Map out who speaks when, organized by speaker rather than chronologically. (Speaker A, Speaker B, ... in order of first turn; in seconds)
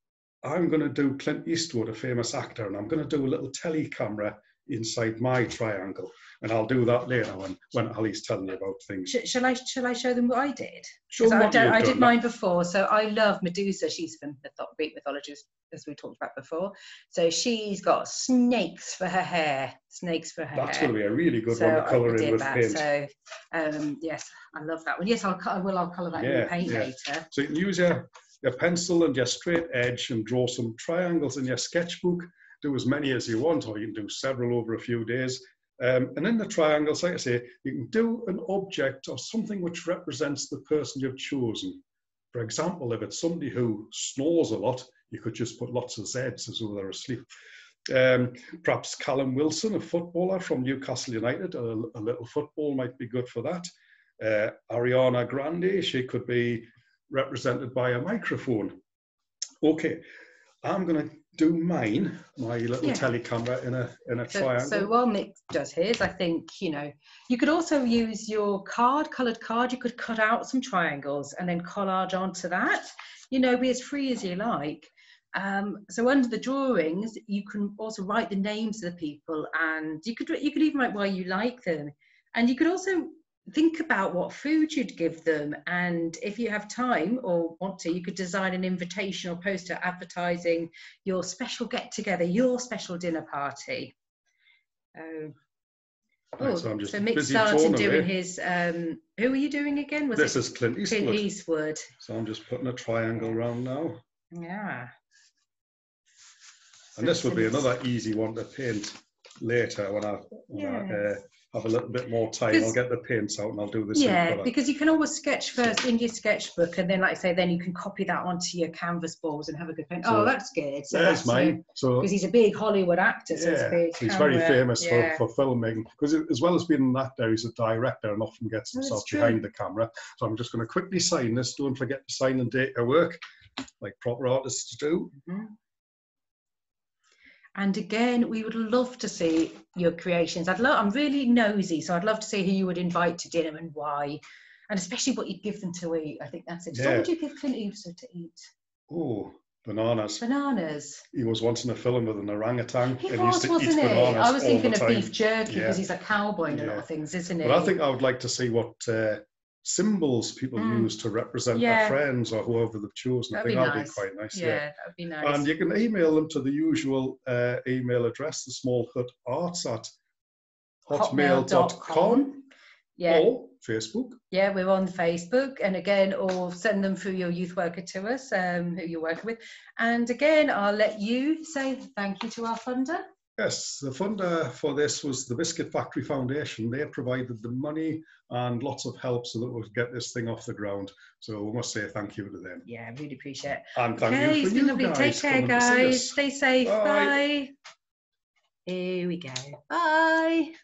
Speaker A: 0.4-9.1, 11.1-12.2, 20.5-22.9, 26.1-47.2, 47.9-53.7, 54.2-58.8, 59.6-60.0, 60.6-64.9, 96.4-98.1, 100.1-101.3, 102.0-104.0, 107.0-114.5, 120.0-120.3, 120.9-122.1, 123.3-133.2, 133.8-135.1, 146.7-147.1, 148.9-150.2, 151.1-155.8, 156.5-156.8, 157.4-164.6, 165.2-169.9, 170.9-172.4, 173.1-174.2, 183.4-192.6, 193.7-197.2
Speaker B: 9.1-20.9, 21.5-27.2, 62.8-63.1, 64.3-93.9, 94.9-95.3, 96.4-101.9, 104.3-104.9, 107.0-107.7, 110.5-111.0, 112.5-112.8, 113.9-125.2, 128.7-129.4, 135.2-135.5, 137.5-148.4, 150.2-151.0, 153.0-157.8, 160.6-160.9, 161.5-162.0, 163.3-165.5, 170.9-172.4, 173.0-173.2, 174.3-183.0, 192.7-197.5, 198.7-200.5